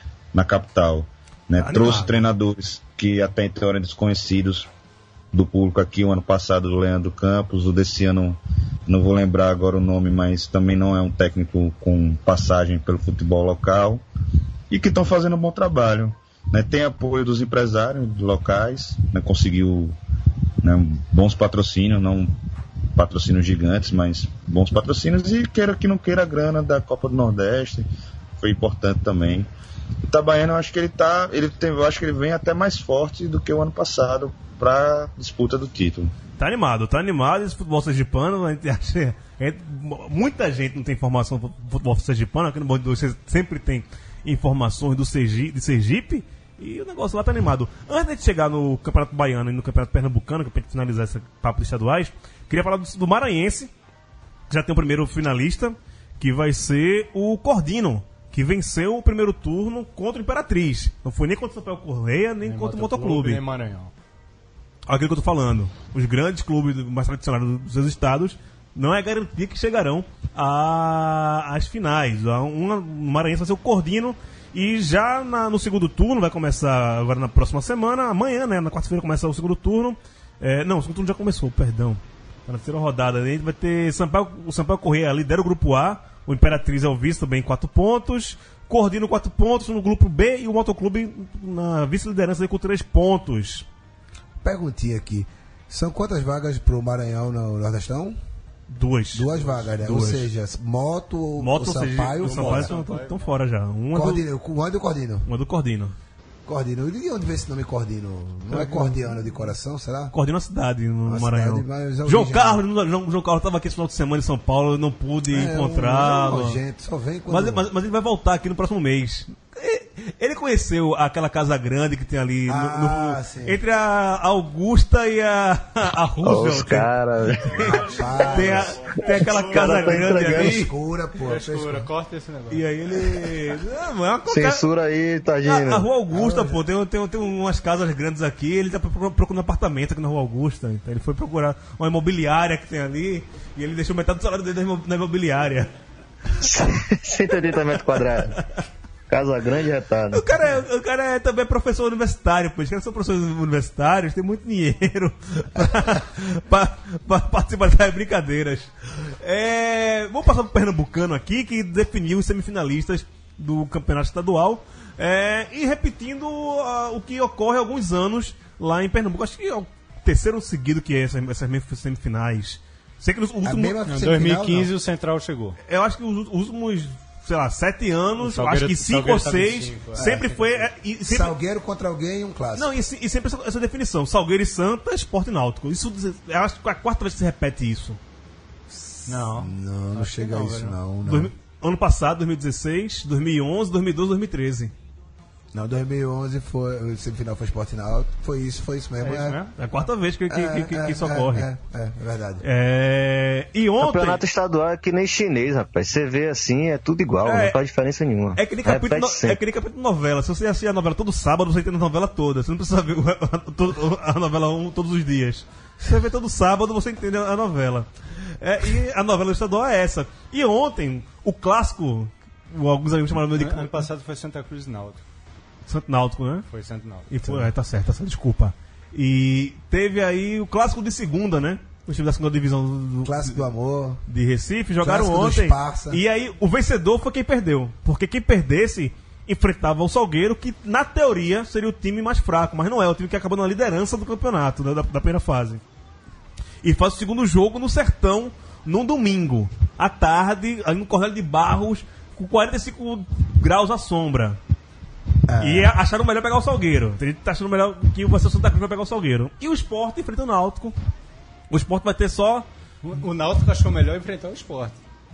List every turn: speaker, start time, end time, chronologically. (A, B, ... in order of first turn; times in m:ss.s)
0:00.3-0:04.7 A
0:01.6-0:02.2 B
0:05.3-0:14.0 A
0:14.7-0:20.0 A
0:20.6-0:22.3 A
0:23.0-0:27.9 A
0:28.4-0:29.5 A
0:30.1-0:36.1 A
0:36.4-0:53.7 B
0:54.5-1:03.4 B
1:02.4-1:03.9 C
1:04.9-1:33.7 B
1:34.4-1:38.2 D
1:38.7-1:39.3 B
1:39.1-1:42.7 D
1:39.8-1:40.3 B
1:41.4-1:44.2 B
1:42.2-1:43.3 C
1:43.9-1:45.3 D
1:45.3-1:46.0 B
1:46.5-1:50.1 D
1:48.5-1:49.0 B
1:50.1-1:56.6 B
1:51.1-1:52.6 D
1:55.3-1:57.7 D
1:57.3-2:10.7 B
2:02.5-2:03.6 D
2:06.2-2:07.9 E
2:07.9-2:08.8 D
2:09.0-2:10.5 E
2:09.3-2:09.6 C
2:09.9-2:11.9 D
2:11.2-2:12.6 C
2:12.5-2:14.6 B
2:14.3-2:15.9 E
2:15.5-2:25.7 B
2:16.1-2:16.6 D
2:26.4-2:28.4 E
2:28.0-2:28.4 B
2:29.1-2:30.3 E
2:30.1-2:53.8 B
2:53.4-2:54.7 D
2:53.9-2:55.6 C
2:55.7-3:01.3 B
2:58.2-3:00.7 C
3:01.1-3:02.7 D
3:02.6-3:08.0 B
3:08.7-3:11.3 D
3:09.1-3:10.8 C
3:11.1-3:14.7 B
3:15.5-3:19.4 D
3:19.0-3:19.5 C
3:19.6-3:21.5 B
3:20.3-3:22.4 D
3:22.4-3:24.2 B
3:23.8-3:29.4 E
3:27.2-3:27.6 B
3:28.4-3:43.9 B
3:43.4-3:45.0 C
3:45.7-3:46.5 B
3:46.5-3:47.5 C
3:47.1-3:53.4 B
3:53.0-3:54.0 D
3:54.1-4:05.6 B
3:54.8-3:56.0 D
4:06.6-4:14.4 B
4:15.3-4:15.7 D
4:15.4-4:20.8 B
4:21.5-4:22.5 B
4:22.8-4:24.8 C